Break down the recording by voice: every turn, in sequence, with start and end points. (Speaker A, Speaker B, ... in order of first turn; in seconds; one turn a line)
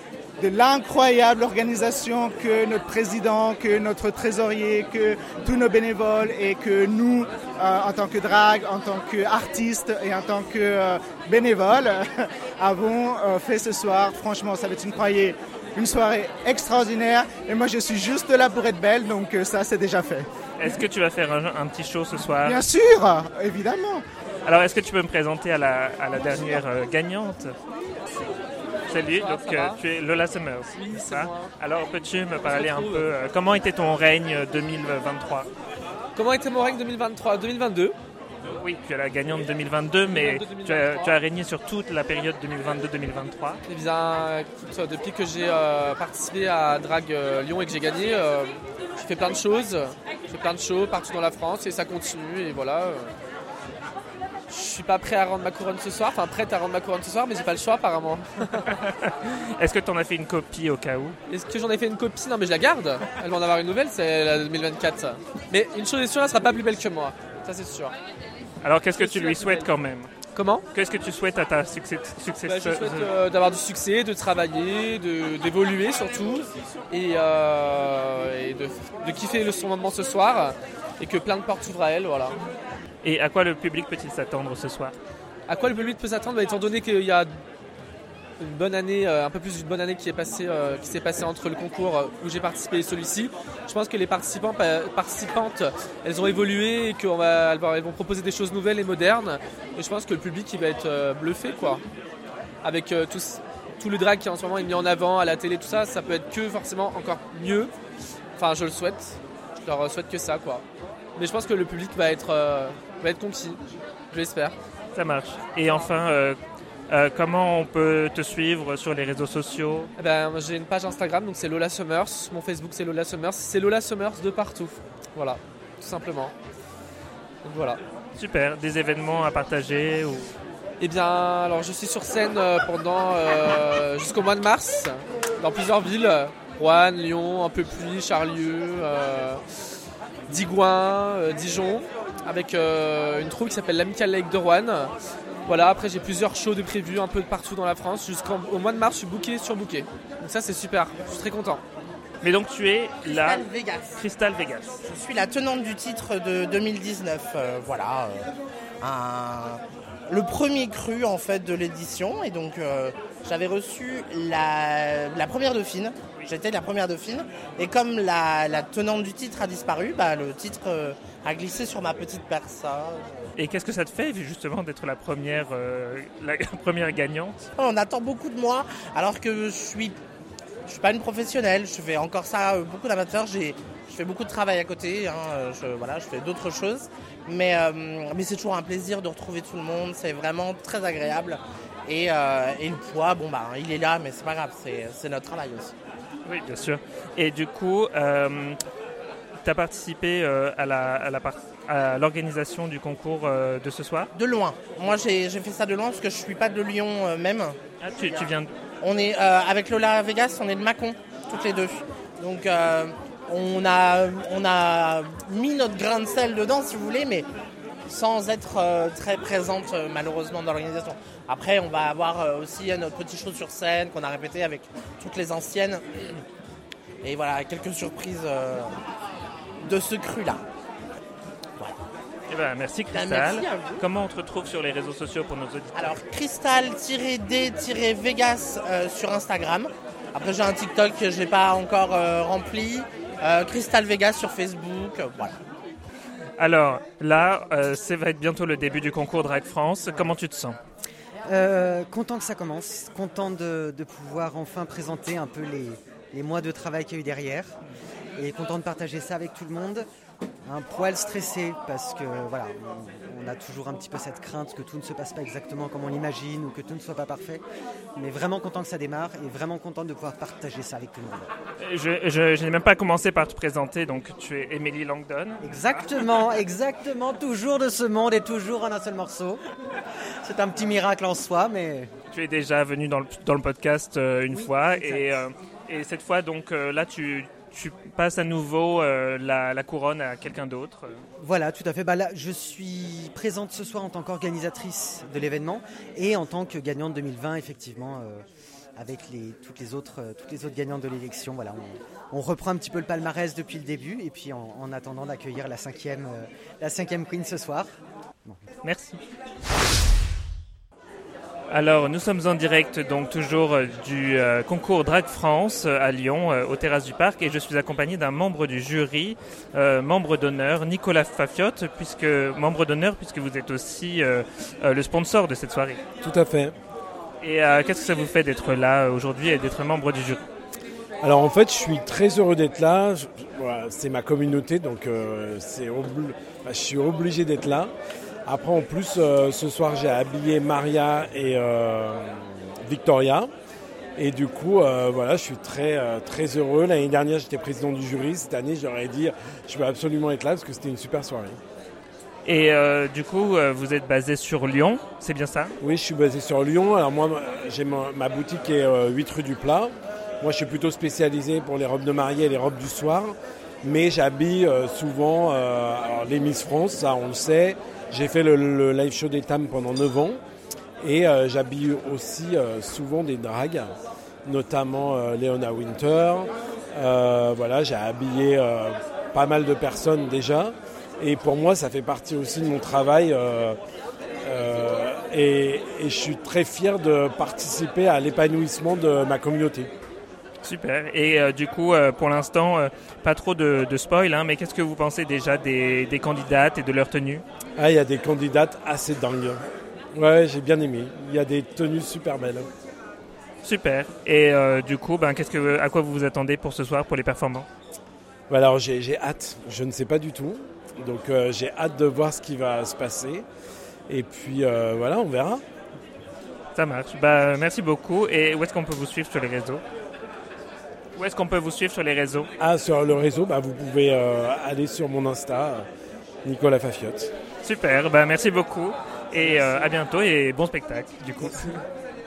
Speaker A: 0.4-12.0
Speaker A: 12.6-20.3
Speaker B: 20.6-22.6
Speaker A: 22.4-24.0
Speaker B: 24.5-27.5
Speaker B: 28.9-35.5
Speaker C: 29.1-29.8
Speaker C: 30.7-31.5
Speaker C: 32.4-33.1
Speaker C: 36.1-38.0
Speaker B: 38.6-43.6
Speaker C: 40.0-41.2
Speaker C: 43.7-53.1
Speaker C: 54.5-58.8
Speaker B: 58.7-61.2
Speaker C: 61.3-68.0
Speaker B: 68.6-70.1
Speaker C: 69.0-69.7
Speaker C: 70.3-70.7
Speaker B: 70.7-73.1
Speaker C: 72.4-82.4
Speaker B: 83.0-85.0
Speaker C: 85.5-87.3
Speaker C: 88.4-101.8
Speaker C: 102.6-107.7
Speaker C: 108.4-110.6
Speaker C: 111.2-113.6
Speaker C: 114.1-114.5
Speaker B: 115.0-116.4
Speaker B: 116.9-119.9
Speaker C: 120.0-126.3
Speaker C: 127.4-127.8
Speaker B: 128.2-130.3
Speaker C: 130.8-139.4
Speaker C: 140.3-144.9
Speaker C: 145.5-151.6
Speaker B: 152.2-153.4
Speaker D: 153.1-154.0
Speaker B: 154.0-154.8
Speaker D: 154.8-158.3
Speaker D: 158.8-173.2
Speaker B: 173.4-177.4
Speaker D: 177.6-180.0
Speaker D: 180.7-195.7
Speaker B: 196.3-198.6
Speaker B: 199.4-204.1
Speaker D: 204.2-208.3
Speaker B: 207.8-208.5
Speaker D: 208.8-217.3
Speaker D: 217.9-225.9
Speaker D: 227.0-228.8
Speaker D: 229.6-230.4
Speaker B: 232.3-236.0
Speaker D: 232.9-233.8
Speaker D: 235.7-245.4
Speaker B: 246.4-250.6
Speaker E: 251.3-257.5
Speaker E: 258.2-259.9
Speaker E: 260.4-267.4
Speaker E: 267.9-271.3
Speaker B: 271.6-275.9
Speaker E: 275.4-279.4
Speaker E: 280.2-281.9
Speaker B: 282.1-291.0
Speaker E: 284.3-285.1
Speaker E: 291.2-298.2
Speaker E: 298.8-307.7
Speaker B: 308.6-309.0
Speaker B: 311.5-325.8
Speaker F: 326.0-326.5
Speaker B: 327.2-330.2
Speaker F: 331.0-337.7
Speaker F: 338.3-343.3
Speaker F: 344.0-351.4
Speaker B: 352.3-355.6
Speaker F: 355.6-370.2
Speaker F: 370.8-373.7
Speaker F: 374.3-383.6
Speaker F: 384.2-389.7
Speaker B: 390.4-397.2
Speaker F: 397.6-399.4
Speaker F: 399.9-402.5
Speaker B: 403.4-407.5
Speaker F: 408.3-413.2
Speaker F: 413.9-415.4
Speaker B: 416.6-419.6
Speaker B: 421.0-422.3
Speaker F: 422.4-425.7
Speaker F: 426.2-427.1
Speaker B: 427.4-431.5